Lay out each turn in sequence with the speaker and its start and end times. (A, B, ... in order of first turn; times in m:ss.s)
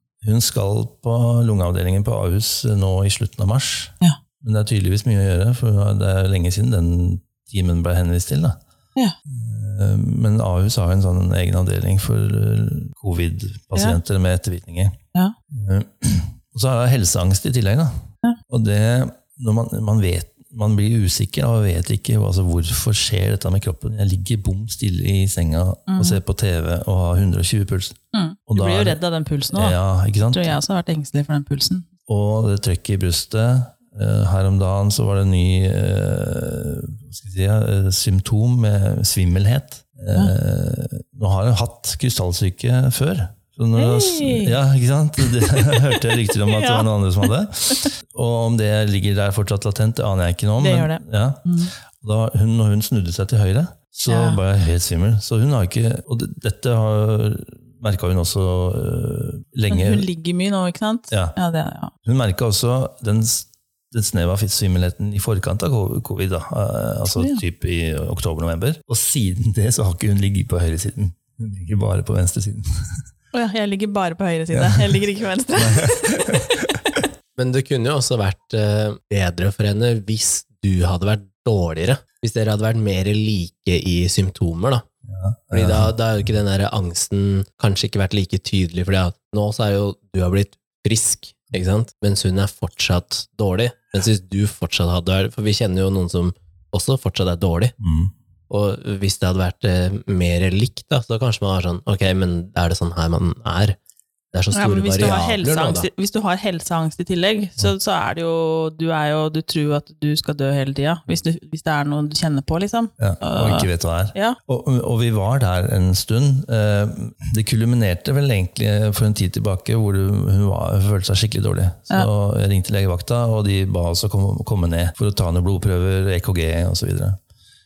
0:00.2-0:08.6 A
0:09.3-0:15.0 A
0:15.5-0:28.0 A
0:25.9-0:26.2 B
0:28.1-0:29.8 B
0:28.5-0:29.0 A
0:29.5-0:30.6 A
0:30.3-0:31.9 B
0:32.1-1:00.1 A
0:43.8-0:44.6 B
0:46.5-0:47.9 B
0:50.6-0:51.7 B
0:54.1-0:54.4 B
0:59.7-1:01.9 B
1:02.0-1:13.0 A
1:07.1-1:07.4 B
1:13.3-1:16.4 B
1:14.5-1:15.0 A
1:15.6-1:17.0 A
1:17.4-1:24.9 C
1:25.1-1:25.9 A
1:25.5-1:37.7 C
1:37.8-1:38.1 A
1:38.5-1:43.8 C
1:44.3-1:45.9 C
1:44.5-1:54.4 B
1:53.0-2:07.2 A